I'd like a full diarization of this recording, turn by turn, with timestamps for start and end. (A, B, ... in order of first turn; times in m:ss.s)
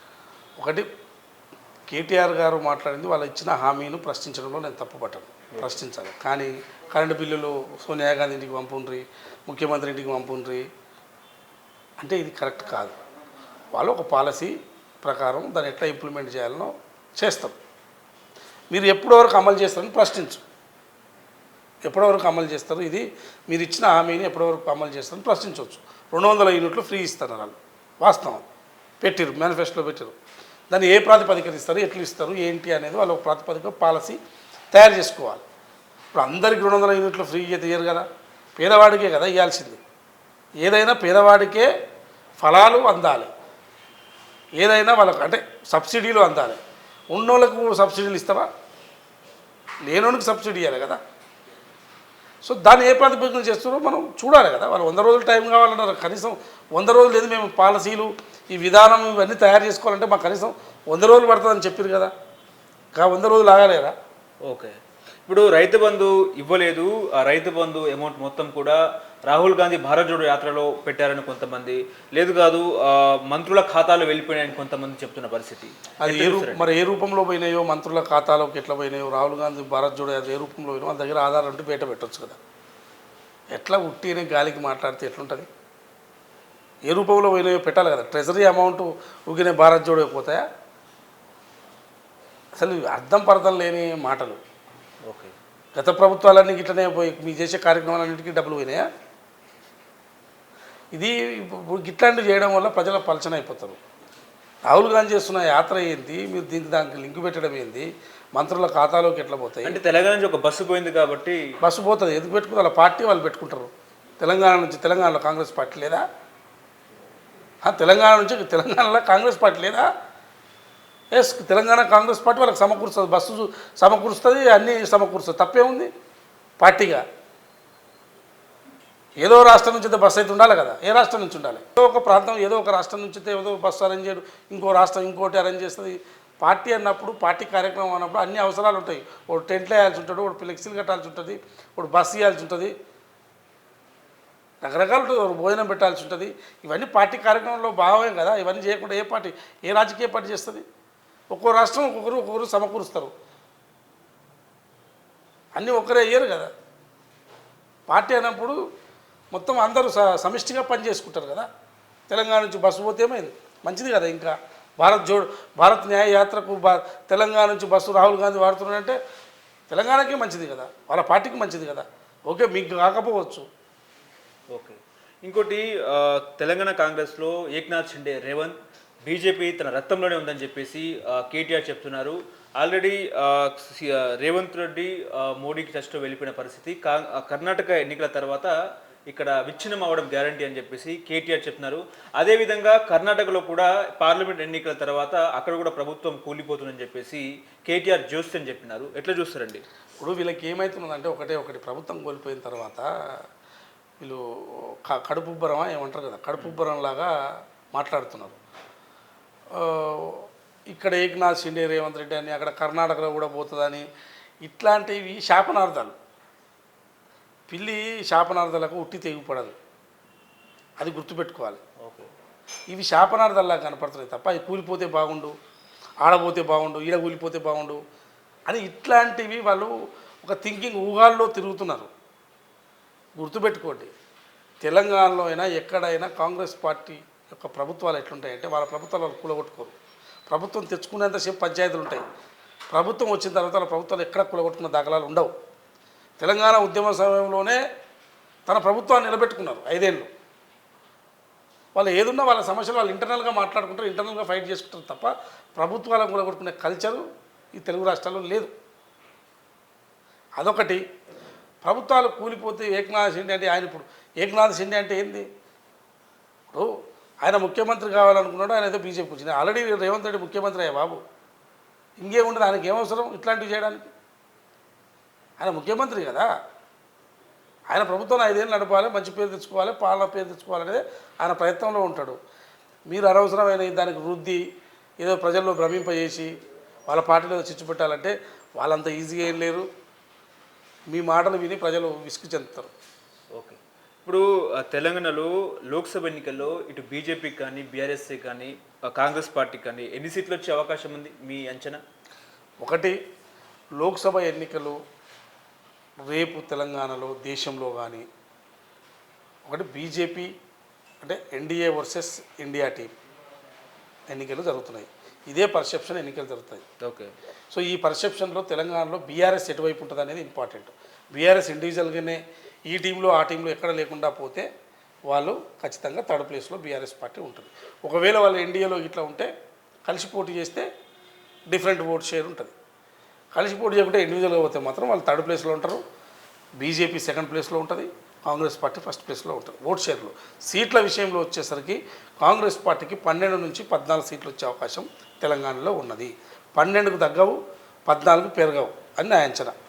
0:00.6-0:00.9 A
0:01.9-0:10.6 A
0:12.0-0:12.9 A
0:13.7-0:17.6 A
0:18.7-0:20.4 A
0:21.8-0:28.4 A
0:29.0-0:30.1 A
0:30.7-0:34.2 A
0:34.7-0:35.4 A
0:36.1-0:38.0 A
0:38.6-0:39.8 A
0:40.6-0:41.7 A
0:42.4-0:43.3 A
0:44.6-0:46.6 A
0:47.1-0:48.5 A
0:49.8-0:51.0 A
0:52.4-1:02.1 A
1:03.0-1:03.9 A
1:04.4-1:04.7 B
1:05.3-1:16.7 B
1:16.0-1:22.4 A
1:23.5-1:25.5 A
1:26.9-1:30.4 A
1:32.6-1:34.4 A
1:35.1-1:35.3 B
1:35.7-1:38.8 A
1:40.9-1:43.8 A
1:44.7-1:49.8 A
1:49.6-1:51.4 B
1:51.6-1:56.0 A
1:57.6-1:59.9 A
2:01.1-2:05.9 A
2:06.6-2:07.0 A
2:09.2-2:22.7 A
2:24.6-2:30.6 A
2:31.3-2:33.1 A
2:35.6-2:36.5 A
2:37.9-2:38.6 A
2:39.3-2:41.5 A
2:42.1-2:49.0 A
2:49.7-2:53.4 A
2:54.5-3:08.5 B
3:09.1-3:19.6 B
3:20.0-3:22.9 A
3:24.0-3:27.1 A
3:27.7-3:28.4 A
3:29.5-3:33.8 A
3:34.4-3:35.9 A
3:37.5-3:39.5 A
3:40.8-3:41.6 A
3:41.8-3:42.1 B
3:42.7-3:45.3 A
3:46.0-3:47.8 A
3:48.5-3:51.9 A
3:53.2-3:53.9 A
3:54.6-3:59.7 A
4:00.3-4:02.0 A
4:02.7-4:05.3 A
4:06.2-4:07.6 A
4:08.4-4:10.1 A
4:11.7-4:17.0 A
4:17.5-4:18.5 A
4:20.4-4:20.8 A
4:21.6-4:25.2 A
4:27.2-4:31.0 A
4:32.0-4:33.9 A
4:35.4-4:36.3 A
4:37.7-4:42.2 A
4:42.9-4:44.4 A
4:45.0-4:46.3 A
4:46.9-4:49.7 A
4:50.9-4:52.7 A
4:53.3-5:01.8 B
5:02.6-5:03.0 A
5:03.8-5:04.8 A
5:06.0-5:08.0 A
5:09.4-5:10.3 A
5:11.0-5:12.9 A
5:14.1-5:16.6 A
5:16.8-5:17.1 B
5:17.5-5:24.5 A
5:25.1-5:29.3 A
5:29.8-5:30.7 A
5:31.5-5:32.5 A
5:33.3-5:35.8 A
5:36.6-5:49.5 A